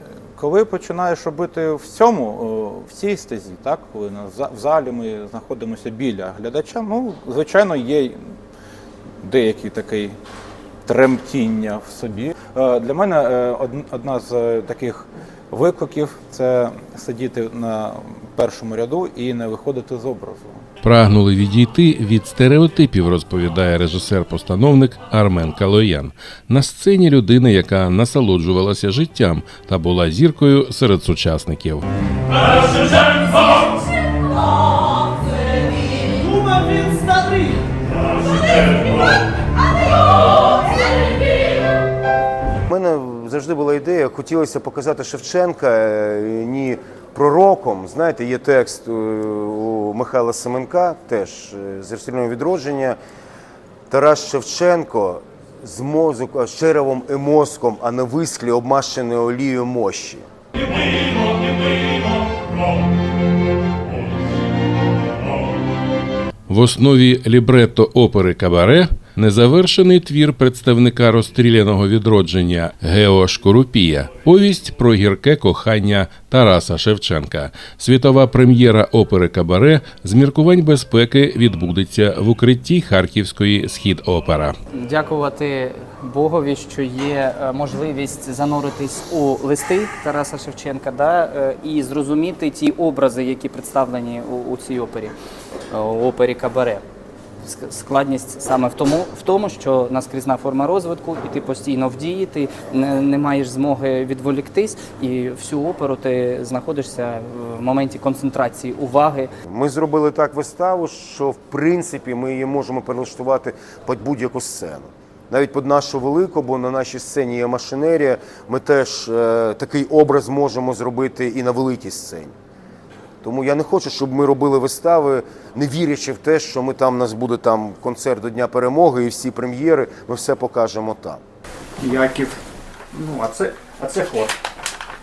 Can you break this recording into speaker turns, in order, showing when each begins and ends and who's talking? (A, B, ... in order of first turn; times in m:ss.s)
0:00.4-0:08.2 A
0:09.2-0:10.2 A
0:10.8-0:20.6 A
0:20.8-0:31.8 B
0:42.7-0:53.0 C
0:53.9-1:00.2 C
1:06.5-1:24.6 B
1:24.7-1:35.1 D
1:35.7-1:36.8 D
1:37.4-1:49.3 D
1:49.5-2:02.3 C
2:03.2-2:11.2 C
2:11.8-2:12.4 E
2:12.9-2:14.3 E